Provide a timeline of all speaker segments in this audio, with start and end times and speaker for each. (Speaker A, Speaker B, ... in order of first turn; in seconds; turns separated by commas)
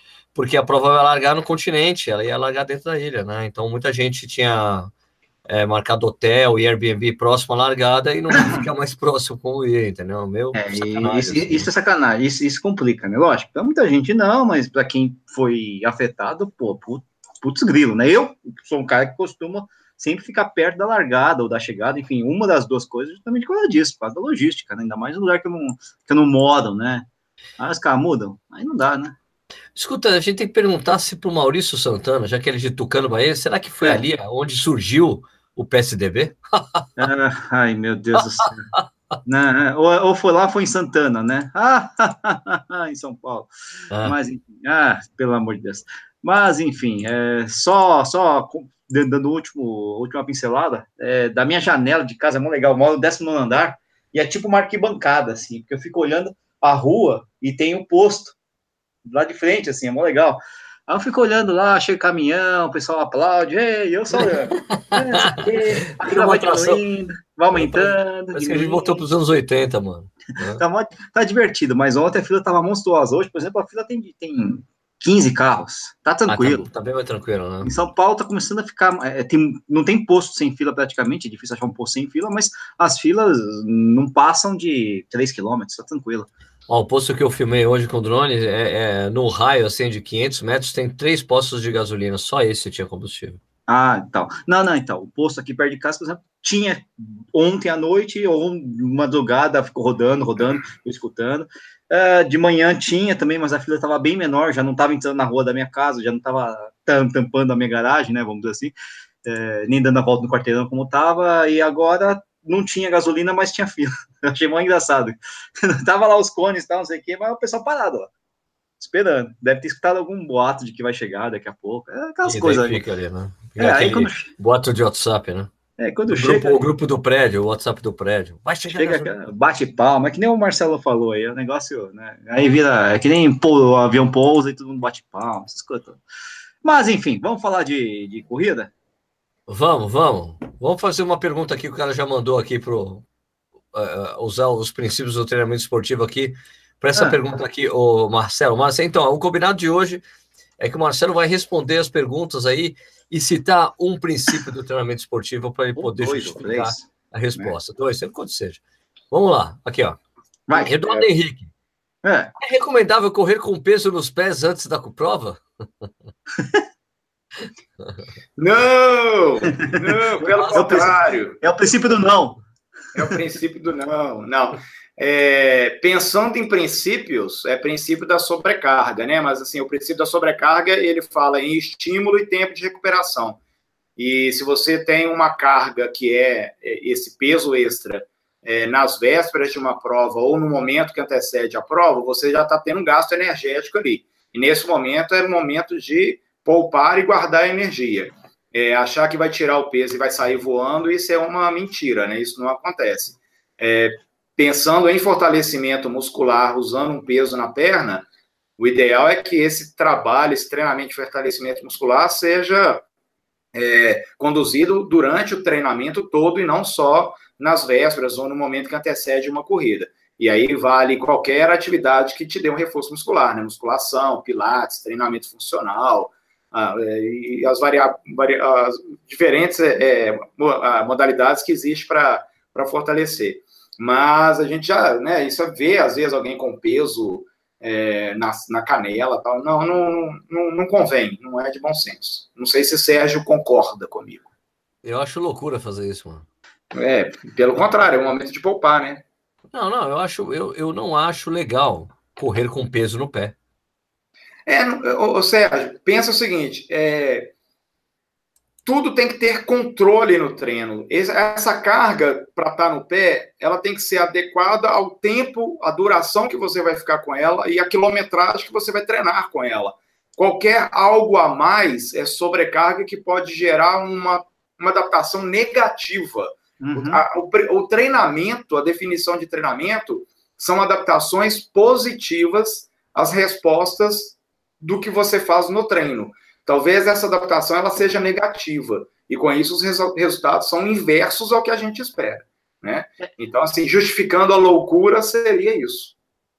Speaker A: 0.3-4.9, Speaker A: 5.5-11.7, Speaker B: 8.3-8.6, Speaker B: 10.5-27.1, Speaker B: 27.6-29.2, Speaker A: 29.8-36.9, Speaker B: 37.0-38.6, Speaker A: 38.2-38.9, Speaker B: 39.3-43.5, Speaker A: 43.9-44.2, Speaker B: 44.0-58.4, Speaker B: 59.0-69.0, Speaker A: 64.2-66.8, Speaker A: 67.5-70.6, Speaker B: 70.6-76.7, Speaker A: 76.3-77.7, Speaker B: 77.6-86.3, Speaker A: 86.7-93.4, Speaker B: 93.7-118.1, Speaker B: 118.8-122.8, Speaker A: 122.2-125.5, Speaker B: 123.6-124.3, Speaker B: 125.8-126.7, Speaker A: 126.1-129.1, Speaker B: 128.7-136.0, Speaker B: 136.6-138.7, Speaker A: 139.5-143.1, Speaker A: 143.7-150.0, Speaker B: 146.9-147.2, Speaker A: 150.6-158.6, Speaker B: 155.8-157.6, Speaker A: 159.1-160.0, Speaker B: 160.5-160.7, Speaker A: 160.5-161.5, Speaker C: 160.6-161.1, Speaker B: 162.0-162.3, Speaker A: 162.4-165.9, Speaker C: 168.4-171.4, Speaker A: 170.2-170.9, Speaker B: 170.5-172.4, Speaker C: 172.9-183.4, Speaker C: 184.0-208.1, Speaker C: 208.6-212.8, Speaker C: 213.5-244.3, Speaker A: 244.8-246.3, Speaker C: 246.7-249.0, Speaker A: 249.5-253.3, Speaker C: 254.5-257.3, Speaker C: 258.7-295.9, Speaker B: 276.6-277.0